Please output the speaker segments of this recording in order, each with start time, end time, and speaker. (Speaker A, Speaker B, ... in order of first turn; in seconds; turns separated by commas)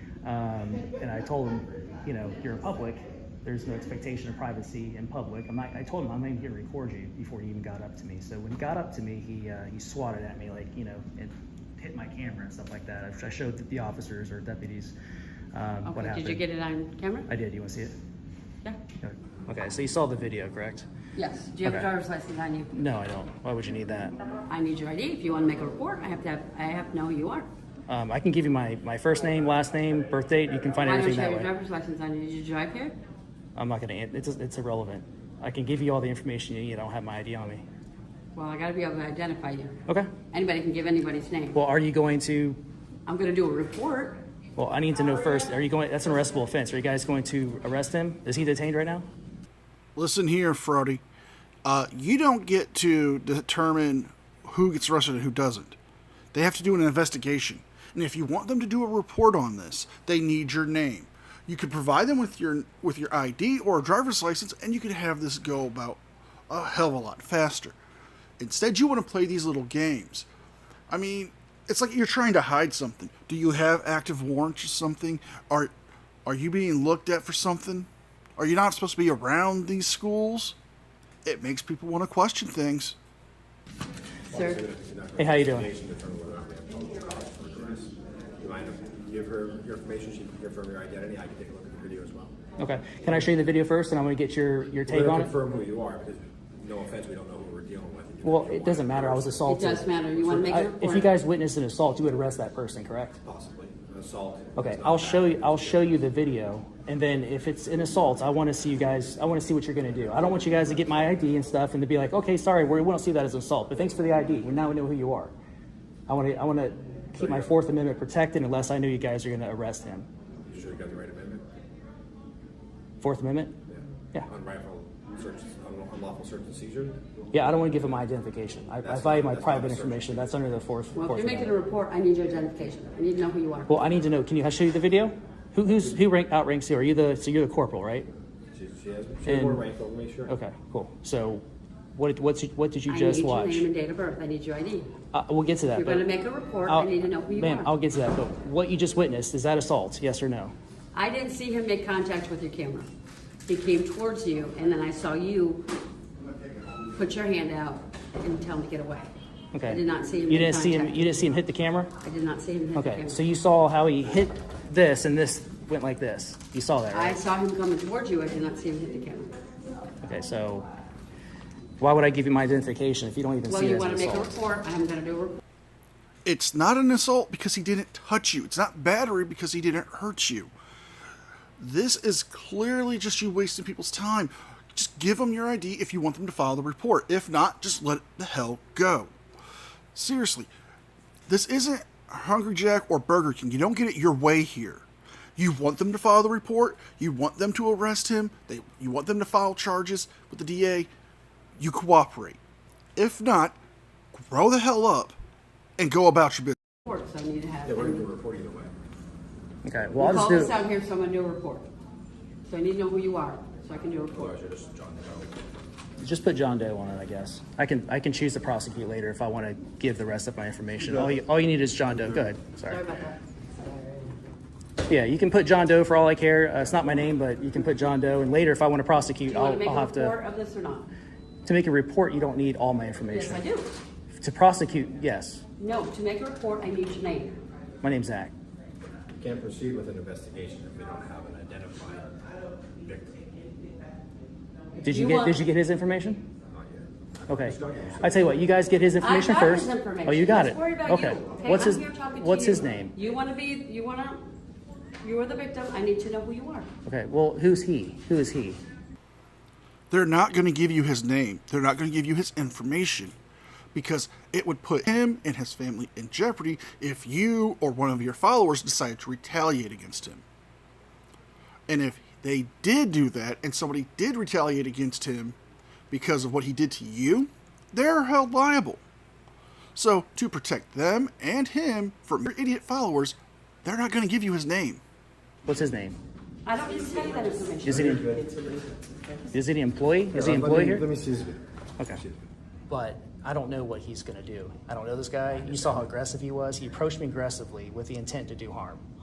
Speaker A: 0.2-14.9, Speaker A: 15.5-16.4, Speaker B: 15.8-17.3, Speaker A: 17.3-17.9, Speaker A: 19.0-20.9, Speaker B: 21.1-22.7, Speaker A: 22.7-24.1, Speaker B: 24.5-27.5, Speaker A: 27.9-31.5, Speaker B: 30.8-33.0, Speaker A: 33.5-37.6, Speaker B: 38.3-39.8, Speaker A: 39.9-40.1, Speaker B: 40.3-41.6, Speaker A: 41.5-42.6, Speaker B: 43.0-44.2, Speaker A: 44.6-49.1, Speaker C: 50.0-51.0, Speaker C: 51.6-55.8, Speaker C: 56.3-67.8, Speaker C: 68.4-70.3, Speaker C: 70.9-75.7, Speaker C: 76.2-80.5, Speaker C: 81.2-83.0, Speaker B: 84.3-84.6, Speaker D: 84.3-92.3, Speaker A: 85.2-85.7, Speaker A: 92.6-95.3, Speaker D: 94.9-100.5, Speaker A: 98.2-99.9, Speaker B: 99.4-101.1, Speaker A: 100.4-103.2, Speaker D: 103.2-105.9, Speaker A: 104.5-115.3, Speaker A: 116.1-120.1, Speaker D: 117.2-117.5, Speaker D: 120.5-121.4, Speaker A: 123.0-123.5, Speaker D: 123.7-127.0, Speaker A: 127.3-131.6, Speaker D: 128.8-130.3, Speaker B: 130.9-133.8, Speaker A: 133.7-138.1, Speaker D: 138.5-140.3, Speaker A: 139.2-139.6, Speaker A: 140.3-143.7, Speaker B: 142.9-144.9, Speaker A: 145.1-146.1, Speaker B: 145.7-147.7, Speaker A: 146.7-150.5, Speaker B: 150.9-152.9, Speaker B: 153.5-155.7, Speaker B: 156.9-159.1, Speaker A: 159.5-161.9, Speaker B: 159.7-161.0, Speaker B: 162.0-163.2, Speaker A: 162.7-167.2, Speaker B: 166.9-169.3, Speaker A: 170.0-170.7, Speaker A: 171.8-174.4, Speaker B: 173.5-175.4, Speaker C: 176.2-180.5, Speaker C: 181.6-189.1, Speaker C: 189.9-190.5, Speaker C: 191.3-194.8, Speaker C: 195.3-200.9, Speaker C: 201.6-202.4, Speaker C: 202.9-203.6, Speaker C: 204.1-205.2, Speaker C: 205.8-206.6, Speaker B: 206.8-208.1, Speaker D: 207.6-208.7, Speaker A: 209.6-210.5, Speaker B: 210.0-211.7, Speaker B: 212.5-214.4, Speaker D: 214.1-215.3, Speaker A: 216.0-222.8, Speaker B: 222.7-224.2, Speaker A: 224.8-230.1, Speaker B: 229.2-230.9, Speaker A: 231.4-233.4, Speaker B: 233.1-233.7, Speaker A: 234.1-235.4, Speaker B: 235.6-237.3, Speaker A: 237.8-238.3, Speaker D: 239.1-242.2, Speaker D: 242.7-243.2, Speaker B: 244.8-245.4, Speaker A: 244.8-246.2, Speaker D: 246.5-248.3, Speaker A: 247.3-252.9, Speaker B: 249.0-254.3, Speaker B: 255.0-256.7, Speaker A: 256.9-258.6, Speaker C: 259.9-263.1, Speaker C: 263.7-270.2, Speaker C: 271.7-275.4, Speaker C: 275.9-278.8, Speaker C: 279.7-284.8, Speaker A: 285.4-286.0, Speaker B: 286.4-288.1, Speaker D: 287.6-288.8, Speaker A: 289.3-290.9, Speaker D: 290.1-291.4, Speaker D: 291.9-292.2, Speaker A: 292.7-298.8